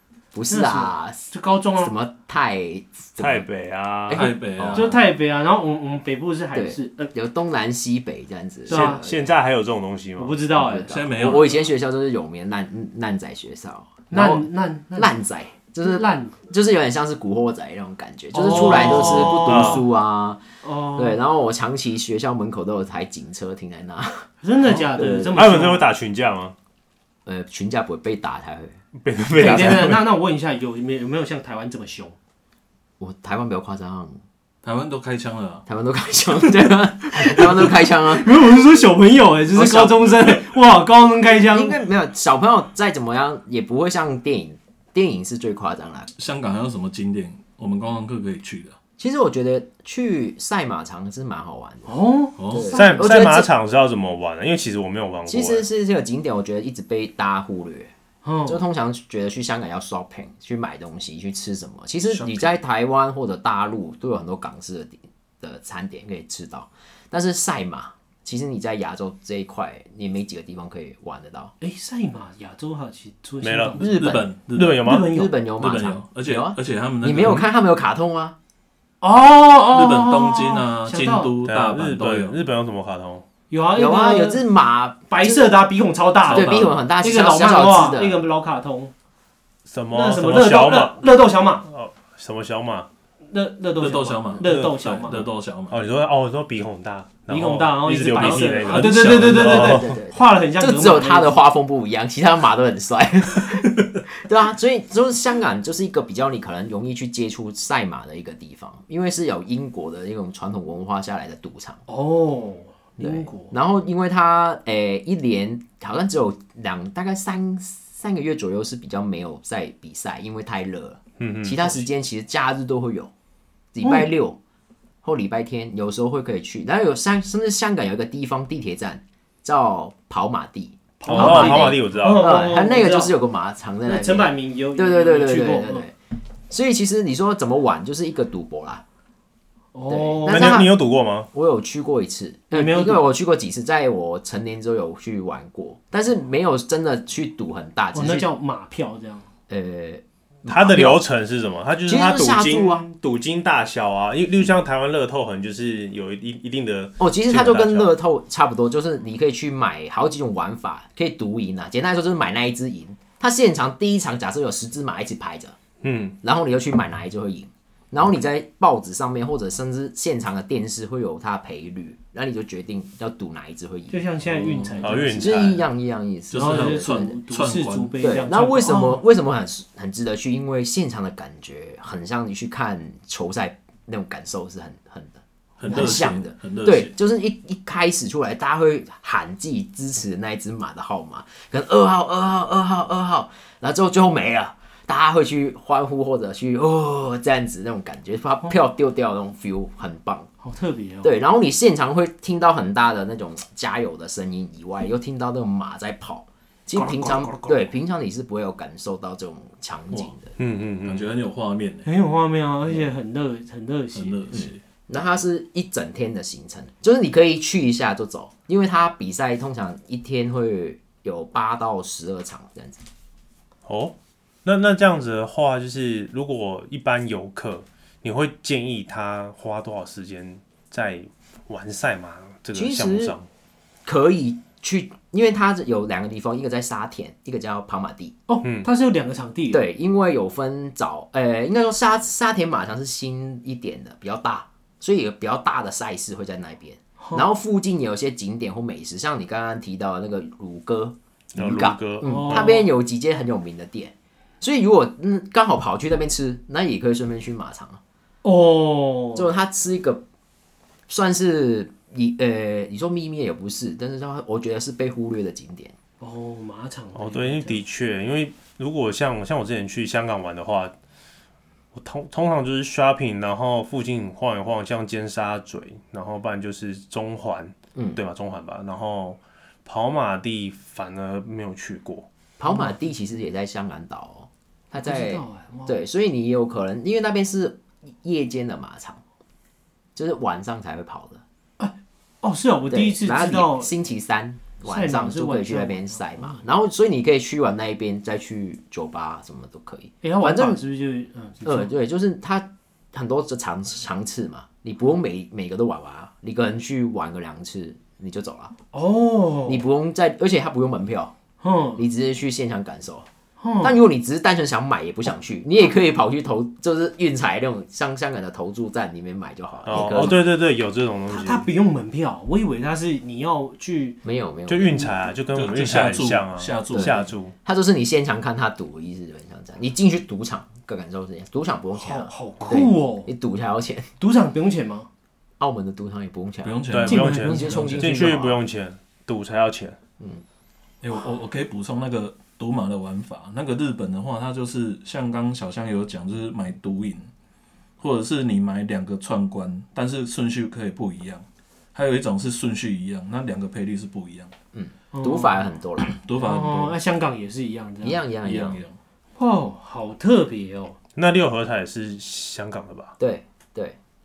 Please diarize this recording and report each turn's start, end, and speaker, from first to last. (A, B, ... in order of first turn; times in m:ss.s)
0:00.3-0:03.5 A
0:00.5-0:01.9 B
0:03.2-0:04.3 C
0:04.1-0:05.0 A
0:04.1-0:05.0 D
0:04.7-0:07.1 B
0:06.5-0:09.3 A
0:08.7-0:09.0 B
0:08.7-0:10.4 C
0:10.2-0:11.0 B
0:10.6-0:20.4 A
0:10.7-0:11.7 D
0:14.1-0:15.1 B
0:15.8-0:16.3 B
0:18.3-0:19.8 B
0:19.4-0:19.8 C
0:20.6-0:21.2 B
0:21.0-0:24.3 A
0:24.4-0:25.8 B
0:25.0-0:26.6 C
0:27.3-0:28.8 A
0:29.0-0:30.0 C
0:29.4-0:32.2 B
0:29.4-0:29.8 A
0:33.0-0:34.2 A
0:34.6-0:35.6 D
0:35.7-0:38.3 A
0:38.1-0:41.8 B
0:39.5-0:40.2 A
0:41.4-0:46.1 A
0:46.2-0:48.8 D
0:49.0-0:51.9 A
0:51.9-0:53.2 B
0:52.4-0:52.7 D
0:52.5-0:53.5 A
0:52.7-0:55.7 C
0:55.3-0:57.9 A
0:58.2-0:58.6 B
0:58.5-1:11.5 A
1:02.1-1:02.5 D
1:11.6-1:13.9 B
1:13.4-1:13.9 C
1:13.8-1:14.2 A
1:13.8-1:14.8 D
1:14.5-1:15.1 C
1:14.8-1:15.3 B
1:14.9-1:18.4 A
1:15.6-1:17.5 D
1:19.0-1:21.3 B
1:19.7-1:22.4 D
1:21.4-1:23.2 C
1:23.5-1:24.4 B
1:23.8-1:25.5 A
1:25.1-1:28.9 B
1:26.3-1:26.9 D
1:26.3-1:28.2 A
1:29.7-1:31.0 C
1:29.9-1:31.6 B
1:31.6-1:32.9 C
1:33.3-1:35.2 B
1:33.8-1:35.8 D
1:35.7-1:39.9 C
1:37.3-1:41.4 B
1:38.2-1:39.8 D
1:39.3-1:51.8 A
1:51.9-1:53.5 B
1:53.0-2:03.1 A
2:01.2-2:01.8 C
2:03.7-2:04.4 A
2:05.0-2:16.0 A
2:11.0-2:13.1 B
2:11.1-2:12.3 C
2:13.9-2:15.9 B
2:16.5-2:18.8 A
2:19.7-2:20.6 B
2:19.9-2:20.8 A
2:20.3-2:21.3 C
2:21.3-2:28.3 A
2:22.5-2:23.1 B
2:27.9-2:29.2 B
2:29.5-2:31.0 A
2:30.5-2:37.9 C
2:31.9-2:32.8 A
2:37.0-2:45.6 A
2:45.8-2:46.2 C
2:46.2-2:54.0 A
2:53.9-2:55.4 B
2:54.3-2:54.8 D
2:54.8-2:55.6 C
2:55.2-2:57.2 A
2:56.3-2:58.0 D
2:56.3-2:59.0 B
2:58.0-3:20.3 A
3:05.6-3:06.9 D
3:05.7-3:06.1 B
3:20.4-3:21.1 B
3:21.0-3:30.3 A
3:26.8-3:27.6 B
3:30.4-3:31.1 C
3:30.8-3:31.9 D
3:31.9-3:34.2 B
3:34.0-3:34.6 D
3:34.3-3:42.8 A
3:43.7-3:53.3 C
3:52.5-3:53.2 A
3:53.8-3:58.2 A
3:58.3-3:59.6 B
3:58.4-3:58.7 C
3:59.5-4:17.8 A
4:07.0-4:07.3 B
4:11.3-4:12.5 C
4:12.0-4:12.7 B
4:18.2-4:19.3 B
4:19.2-4:20.0 A
4:20.9-4:25.8 A
4:26.0-4:27.6 B
4:27.0-4:30.7 C
4:31.7-4:42.1 C
4:42.4-4:49.0 A
4:42.4-4:42.8 B
4:44.8-4:45.8 B
4:50.0-4:51.2 A
4:51.6-4:53.7 B
4:52.7-5:00.6 A
4:54.6-4:56.4 B
5:00.0-5:01.7 B
5:01.4-5:08.5 A
5:08.7-5:09.6 B
5:09.5-5:11.1 A
5:11.4-5:11.8 B
5:11.8-5:13.1 A
5:13.4-5:13.8 B
5:13.6-5:20.3 A
5:19.7-5:21.5 C
5:21.1-5:24.0 B
5:24.0-5:25.0 A
5:24.5-5:27.4 C
5:25.3-5:27.1 D
5:27.4-5:33.9 A
5:31.8-5:33.1 B
5:34.0-5:34.9 B
5:35.4-5:38.4 A
5:36.4-5:37.8 D
5:36.7-5:39.8 C
5:36.9-5:38.2 B
5:40.8-5:47.1 D
5:47.8-5:54.3 D
5:54.5-5:55.9 A
5:54.9-5:55.4 B
5:56.0-5:56.8 D
5:56.2-5:58.0 B
5:57.8-5:58.6 A
5:58.2-5:58.8 D
5:59.2-6:00.8 B
6:01.0-6:03.0 C
6:03.0-6:03.8 A